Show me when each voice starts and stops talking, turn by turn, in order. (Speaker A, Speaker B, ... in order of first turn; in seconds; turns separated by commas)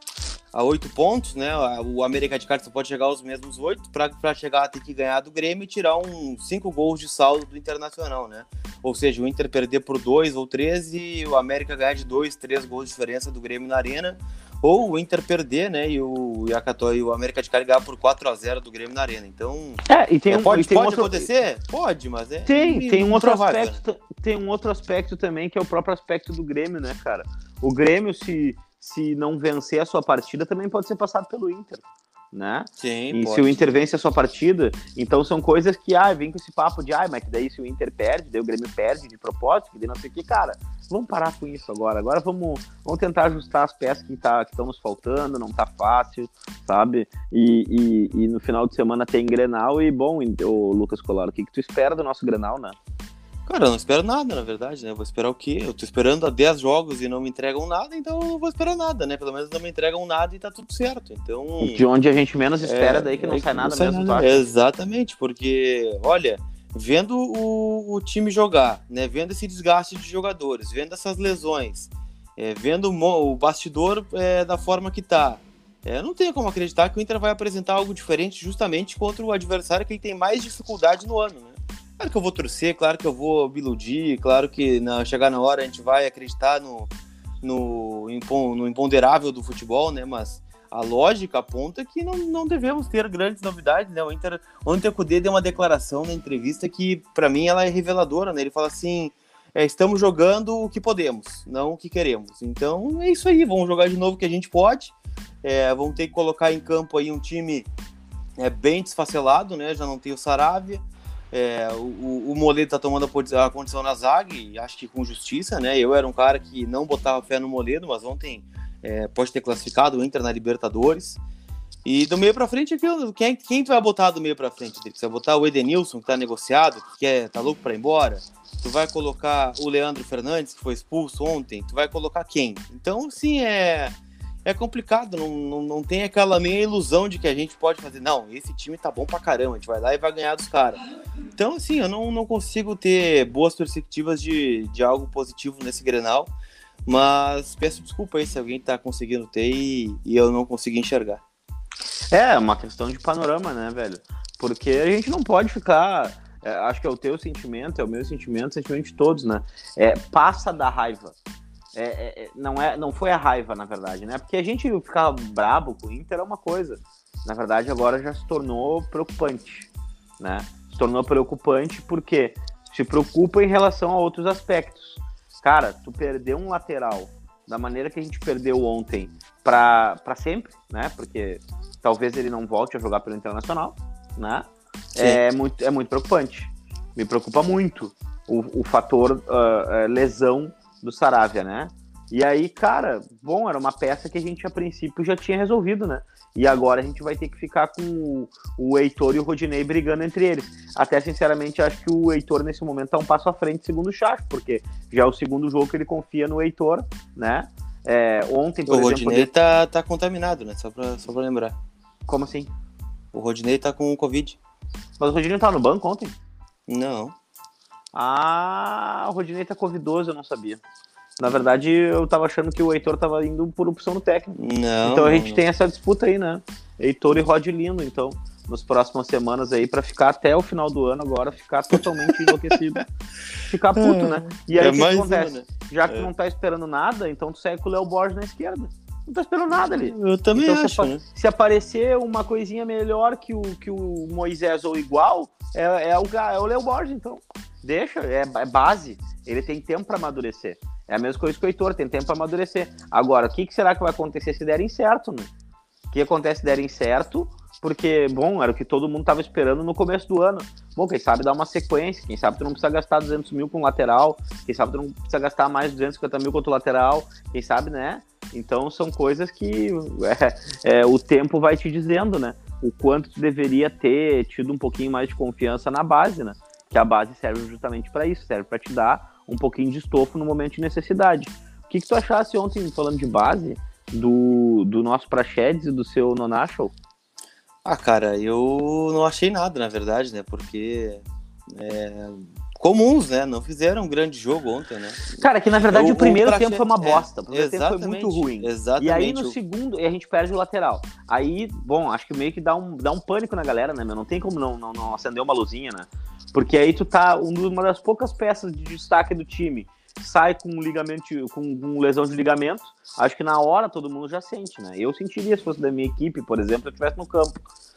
Speaker A: 0.5-23.8, Speaker B: 19.9-21.3, Speaker B: 22.5-52.8, Speaker A: 32.8-33.7, Speaker A: 53.5-61.9, Speaker B: 61.6-64.4, Speaker A: 62.6-86.9, Speaker A: 87.4-107.7, Speaker A: 108.4-121.2, Speaker A: 121.8-140.8, Speaker A: 141.4-146.3, Speaker A: 146.9-151.2, Speaker B: 152.1-161.1, Speaker B: 161.8-209.3, Speaker A: 185.0-185.2, Speaker A: 208.7-211.6, Speaker B: 212.1-212.5, Speaker A: 213.1-214.4, Speaker B: 215.0-216.1, Speaker A: 216.7-217.1, Speaker B: 217.9-220.6, Speaker B: 221.2-224.3, Speaker A: 224.3-225.4, Speaker B: 224.8-232.8, Speaker A: 231.7-232.3, Speaker B: 233.5-255.3, Speaker A: 233.8-236.1, Speaker A: 239.5-241.0, Speaker B: 255.9-286.7, Speaker A: 287.6-299.4, Speaker B: 295.2-317.4